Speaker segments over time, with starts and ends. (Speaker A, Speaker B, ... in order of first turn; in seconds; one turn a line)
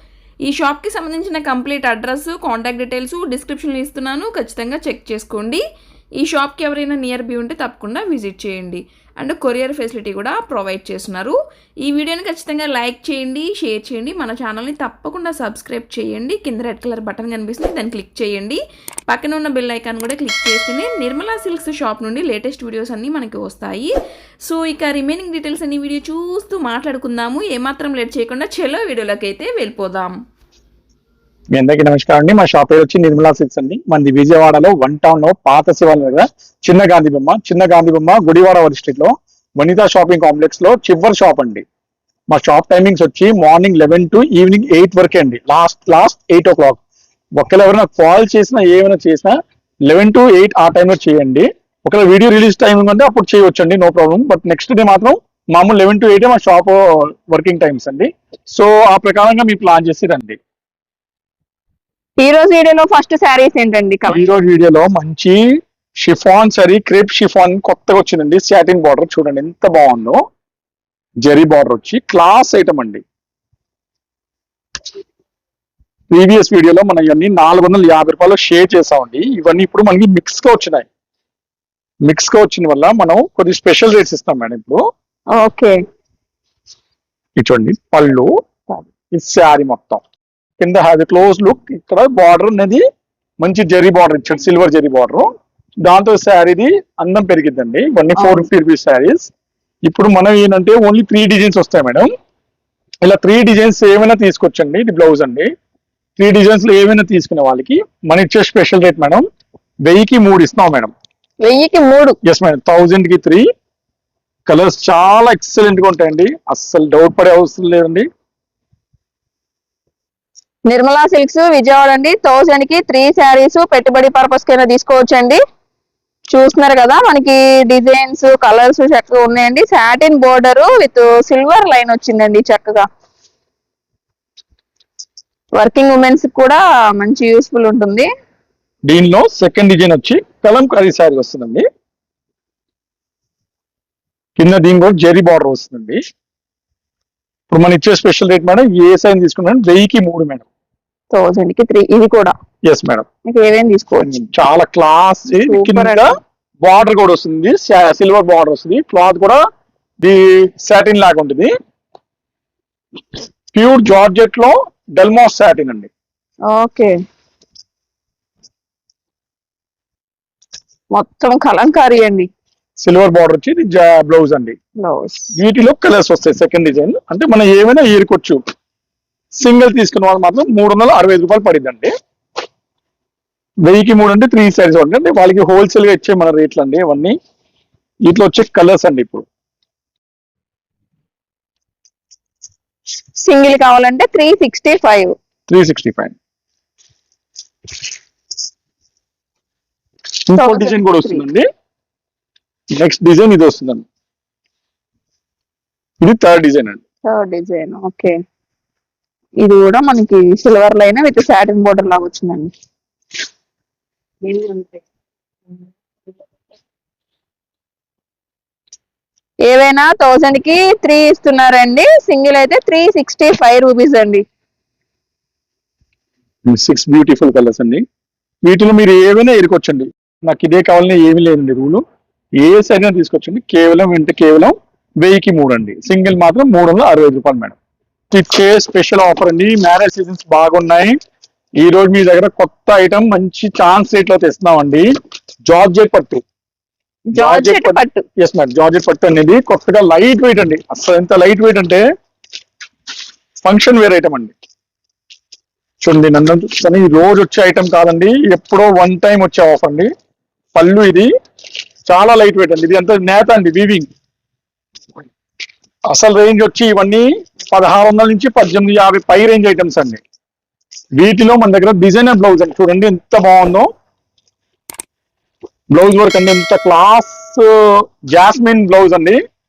Speaker A: 0.4-5.6
Speaker A: 6.2-30.2
Speaker B: 31.5-41.6
Speaker B: 42.3-46.8
Speaker B: 47.4-60.4
Speaker C: 62.2-64.2
Speaker B: 64.1-70.2
Speaker B: 71.2-73.0
Speaker B: 76.1-80.9
Speaker B: 82.0-84.8
Speaker C: 85.3-85.8
Speaker B: 87.4-88.3
Speaker B: 89.1-90.0
Speaker B: 90.6-92.8
Speaker B: 93.4-95.3
Speaker B: 95.8-99.3
Speaker C: 98.2-98.5
Speaker B: 99.8-102.1
Speaker B: 103.0-105.5
Speaker B: 106.2-109.2
Speaker B: 109.8-110.9
Speaker C: 111.4-112.2
Speaker B: 112.2-113.5
Speaker B: 114.5-118.1
Speaker C: 120.7-125.4
Speaker C: 126.3-132.8
Speaker C: 135.6-138.1
Speaker B: 138.9-141.7
Speaker B: 144.4-146.0
Speaker B: 147.5-150.4
Speaker C: 151.1-152.3
Speaker B: 152.6-153.1
Speaker C: 153.3-154.1
Speaker B: 154.0-156.1
Speaker C: 155.5-156.1
Speaker B: 156.6-159.4
Speaker B: 160.0-161.5
Speaker B: 163.5-165.9
Speaker C: 166.5-166.9
Speaker C: 170.9-172.3
Speaker B: 172.8-174.6
Speaker C: 174.8-175.3
Speaker B: 175.3-178.4
Speaker B: 179.4-181.9
Speaker B: 183.7-187.2
Speaker B: 188.1-189.2
Speaker C: 193.2-195.1
Speaker B: 195.5-196.2
Speaker B: 200.3-201.4
Speaker C: 200.3-201.3
Speaker B: 202.7-203.8
Speaker B: 206.0-206.8
Speaker C: 207.1-208.1
Speaker C: 209.4-212.5
Speaker C: 214.2-214.7
Speaker C: 219.5-224.2
Speaker B: 226.5-227.8
Speaker B: 228.4-231.8
Speaker B: 232.4-237.6
Speaker B: 238.1-241.0
Speaker B: 241.6-244.9
Speaker B: 245.5-246.2
Speaker C: 247.1-248.0
Speaker B: 247.2-251.8
Speaker B: 253.4-254.3
Speaker B: 255.8-259.9
Speaker B: 260.5-261.1
Speaker B: 261.9-263.9
Speaker B: 265.9-270.0
Speaker B: 271.0-273.7
Speaker B: 275.7-279.2